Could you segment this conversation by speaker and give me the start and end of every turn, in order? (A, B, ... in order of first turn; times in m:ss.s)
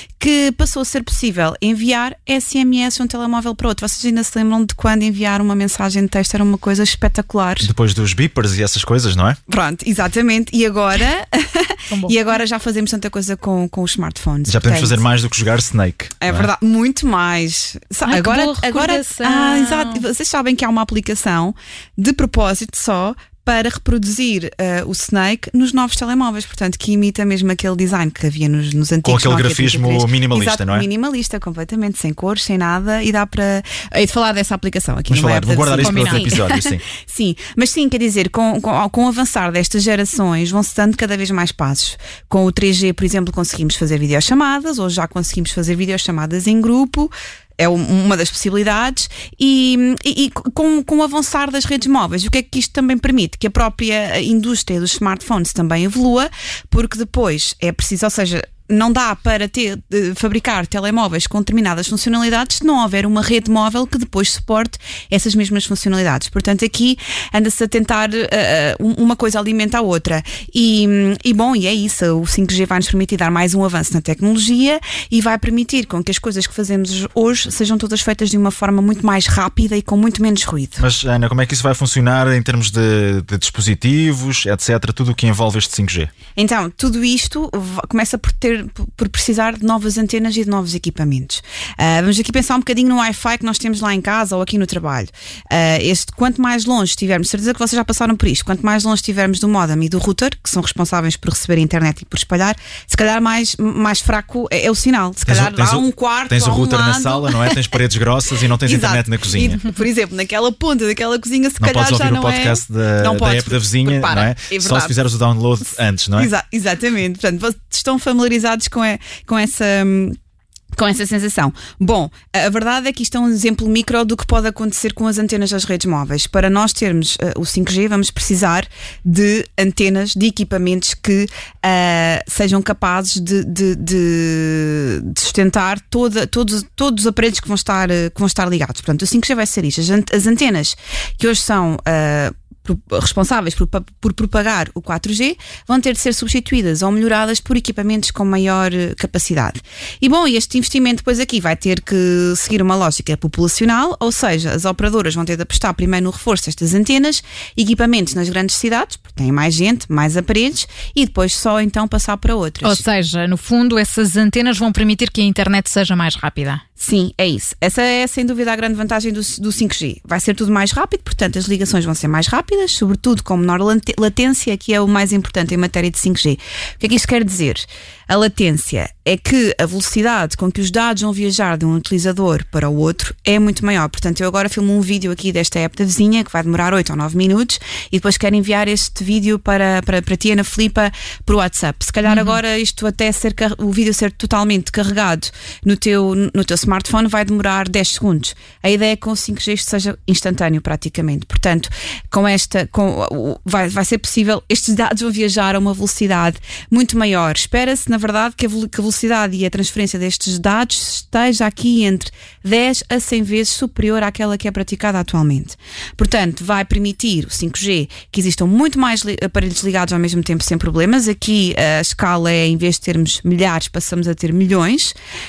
0:00.2-0:07.7 A
0:07.6-0:09.4 B
0:09.5-0:15.0 A
0:11.9-0:12.2 C
0:14.4-0:16.5 B
0:16.2-1:20.8 A
0:18.0-0:20.0 C
0:29.0-0:30.9 B
0:35.1-0:36.8 B
0:35.8-0:36.3 C
1:20.8-1:26.1 B
1:26.3-1:47.6 A
1:45.2-1:49.6 B
1:48.6-1:55.0 A
1:51.6-1:56.3 B
1:55.7-2:00.2 A
2:00.8-2:42.8 A
2:42.6-2:46.6 C
2:46.8-3:44.9 A
3:12.0-3:12.4 C